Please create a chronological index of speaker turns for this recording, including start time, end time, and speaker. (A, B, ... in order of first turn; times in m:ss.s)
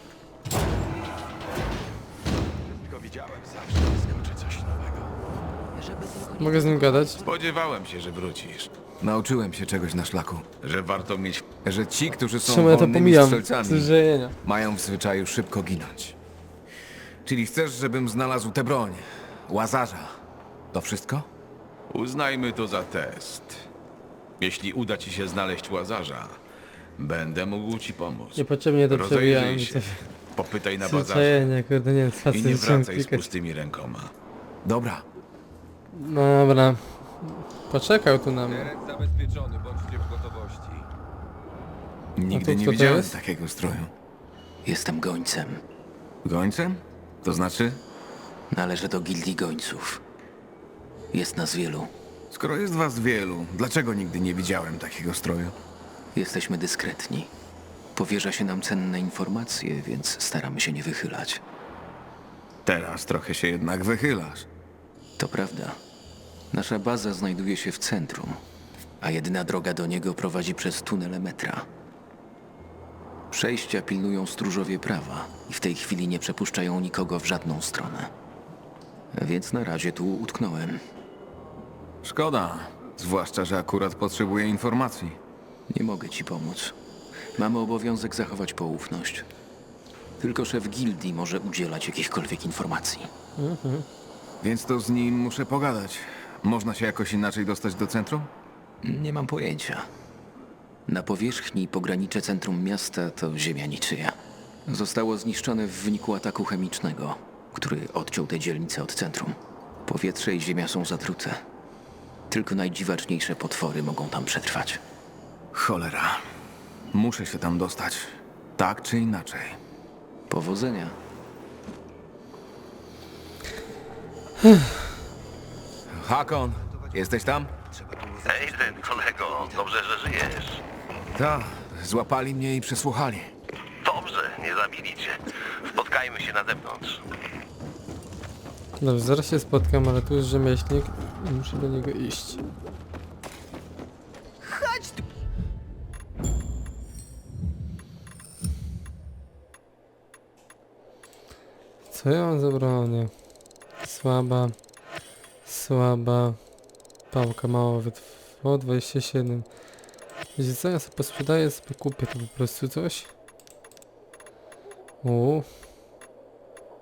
0:02.7-0:05.1 A
0:06.3-0:07.2 B
0:07.2-0:08.7 C
0:09.0-0:10.5 D
0:10.6-0:11.5 C
0:11.6-0:16.2 D
0:12.4-0:14.3 B
0:17.2-0:20.1 D
0:20.7-0:21.3 D
0:21.9-0:23.6 C
0:24.4-0:26.4 C
0:27.0-0:31.5 C
0:28.4-0:30.0 B
0:30.8-0:33.3 B
0:32.3-0:34.1 C
0:34.6-0:35.0 D
0:35.9-0:38.7 B
0:38.7-0:40.8 A
0:42.2-0:43.9 D
0:42.3-0:43.1 B
0:44.6-0:45.6 E
0:46.2-0:47.8 D
0:48.5-0:50.0 E
0:51.1-0:51.9 E
0:52.3-0:55.5 D
0:56.1-0:57.3 E
0:57.9-1:01.4 E
1:02.6-1:04.5 D
1:05.2-1:05.8 E
1:06.5-1:08.4 E
1:09.0-1:11.7 E
1:13.3-1:18.1 E
1:19.1-1:20.8 E
1:22.0-1:25.2 D
1:25.7-1:26.7 E
1:27.4-1:29.3 E
1:30.2-1:33.1 E
1:33.4-1:33.8 B
1:34.4-1:38.3 D
1:38.8-1:39.9 E
1:40.9-1:51.4 E
1:52.3-1:54.8 E
1:55.5-1:56.2 D
1:56.9-1:59.6 D
2:00.3-2:01.0 E
2:04.4-2:04.7 B
2:05.9-2:07.5 D
2:08.2-2:10.6 F
2:11.1-2:13.3 D
2:13.8-2:17.0 F
2:18.8-2:22.4 B
2:31.9-2:33.1 B
2:33.8-2:34.6 B
2:35.4-2:36.4 B
2:37.1-2:39.5 B
2:40.4-2:43.1 B
2:45.0-2:45.4 B